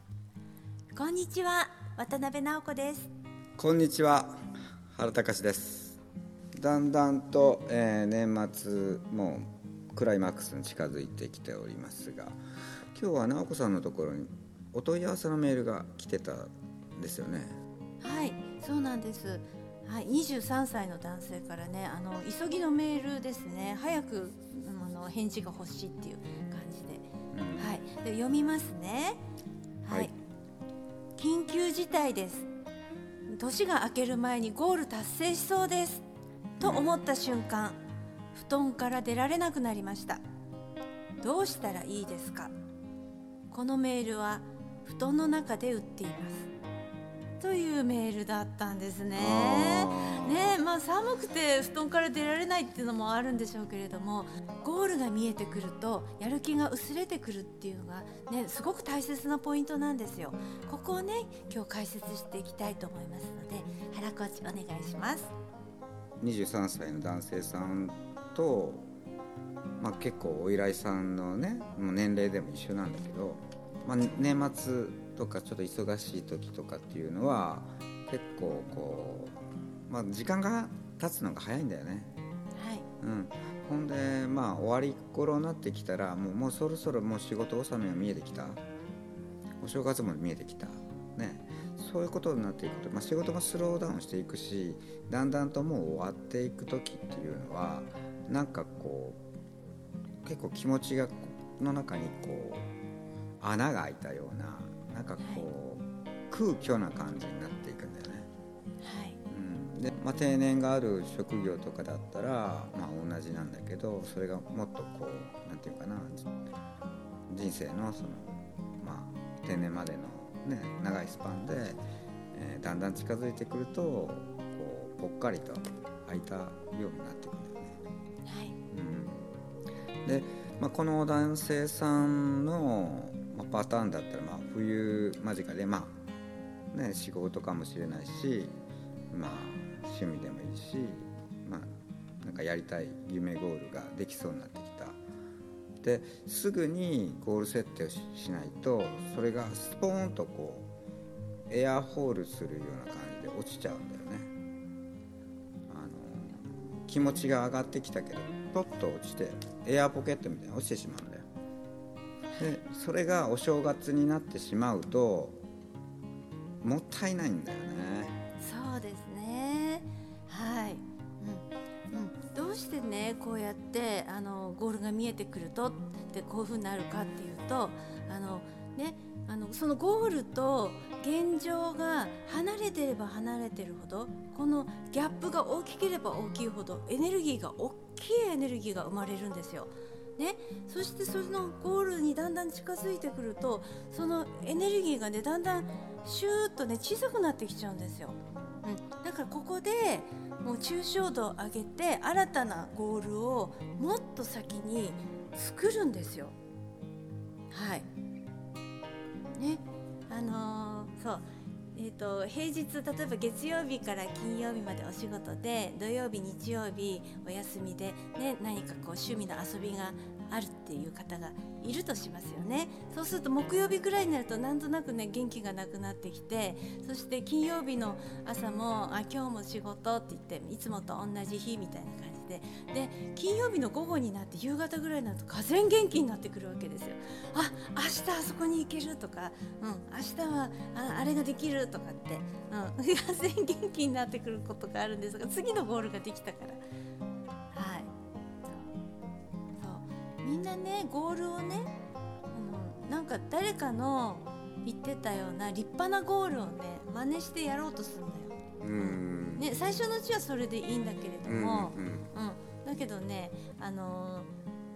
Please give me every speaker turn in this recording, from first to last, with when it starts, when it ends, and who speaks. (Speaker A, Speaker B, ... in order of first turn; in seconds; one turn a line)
Speaker A: 0.9-3.1
Speaker B: 3.6-4.4
Speaker B: 4.9-6.0
Speaker B: 6.6-12.4
Speaker B: 12.9-17.6
Speaker A: 18.0-29.2
Speaker B: 27.3-27.8
Speaker A: 29.8-30.1
Speaker A: 31.2-32.5
Speaker A: 33.3-36.0
Speaker B: 36.6-36.9
Speaker A: 36.6-37.8
Speaker A: 38.3-40.2
Speaker A: 41.2-42.5
Speaker A: 43.5-46.5
Speaker A: 47.4-65.3
Speaker B: 49.2-50.6
Speaker B: 66.2-68.9
Speaker B: 69.8-82.1
Speaker A: 82.5-82.9
Speaker B: 83.0-88.6
Speaker B: 89.6-99.2
Speaker B: 100.2-102.7
Speaker B: 103.4-108.3
Speaker A: 105.2-105.5
Speaker A: 108.8-109.2
Speaker B: 109.3-116.3
Speaker B: 117.3-121.8
Speaker B: 122.3-127.8
Speaker A: 128.3-128.6
Speaker B: 128.7-129.3
Speaker B: 130.1-136.0
Speaker B: 136.7-138.5
Speaker B: 139.1-141.7
Speaker B: 142.2-145.0
Speaker B: 145.8-150.7
Speaker B: 151.5-154.3
Speaker B: 155.7-161.3
Speaker A: 162.3-162.6
Speaker B: 162.4-165.4
Speaker B: 166.6-168.2
Speaker A: 168.4-206.3
Speaker A: 207.5-207.9
Speaker A: 209.3-246.6
Speaker A: 247.5-247.9
Speaker A: 249.6-251.7
Speaker A: 252.3-264.3
Speaker B: 258.6-259.5
Speaker B: 261.2-262.1